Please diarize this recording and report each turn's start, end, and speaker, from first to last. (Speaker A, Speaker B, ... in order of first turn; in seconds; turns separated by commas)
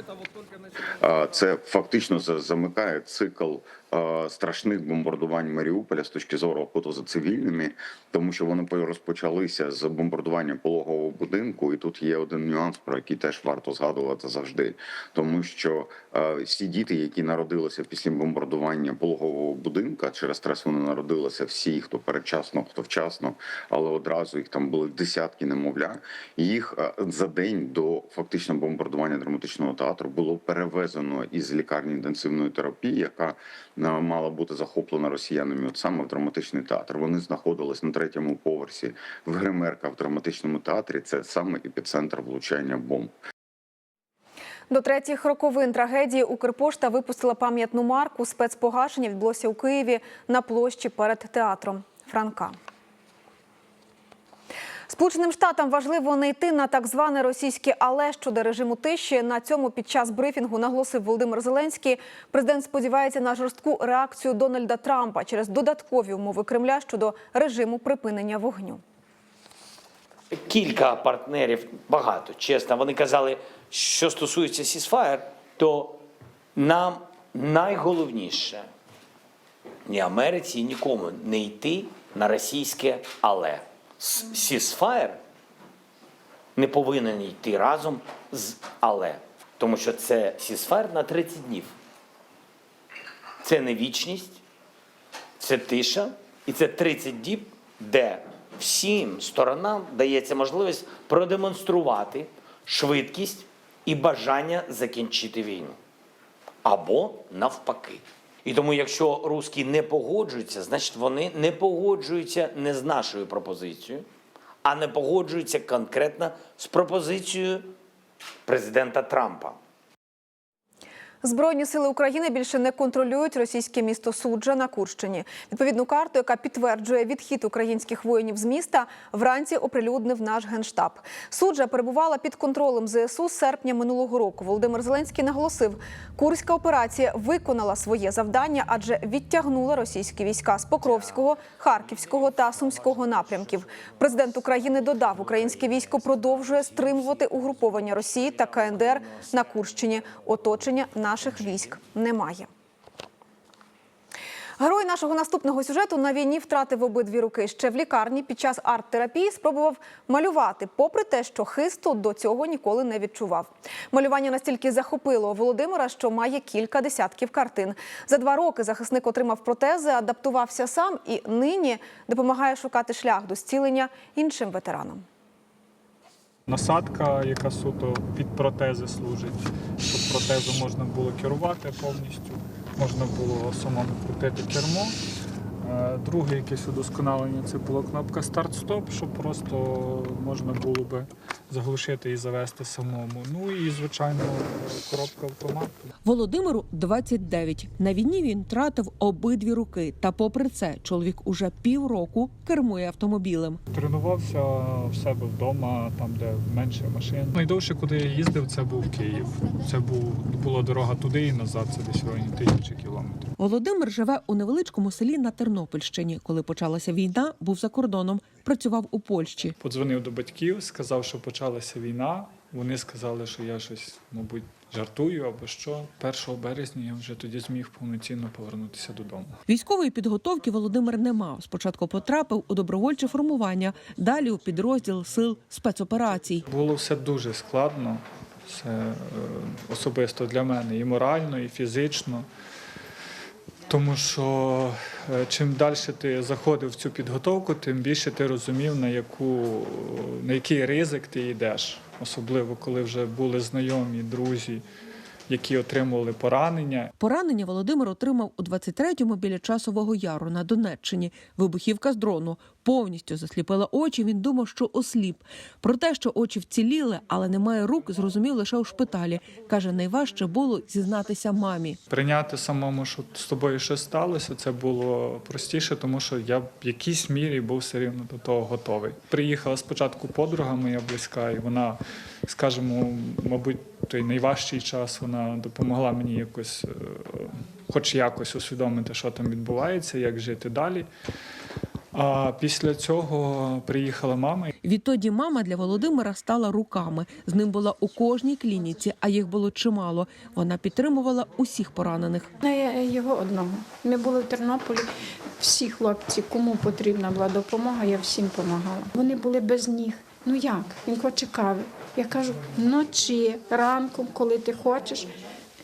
Speaker A: 1.0-43.1, Speaker B: 44.7-52.6, Speaker B: 54.9-68.8, Speaker C: 70.3-76.0, Speaker C: 76.6-78.7, Speaker C: 79.9-85.2, Speaker C: 86.6-91.7, Speaker C: 93.4-94.4, Speaker C: 95.4-105.8, Speaker C: 106.6-114.0, Speaker C: 114.6-117.7, Speaker C: 118.5-119.6, Speaker B: 121.2-152.5, Speaker B: 154.6-175.0, Speaker D: 176.5-185.0, Speaker D: 185.6-195.7, Speaker E: 196.0-203.6, Speaker D: 203.7-213.3, Speaker E: 213.4-219.5, Speaker D: 219.6-229.4, Speaker E: 229.5-236.4, Speaker D: 236.5-242.3, Speaker D: 243.7-254.6, Speaker D: 255.3-256.9, Speaker E: 257.0-271.8, Speaker D: 271.9-281.8, Speaker D: 282.3-290.9, Speaker D: 291.9-294.5, Speaker E: 294.6-302.3, Speaker F: 302.4-304.9, Speaker F: 305.4-315.1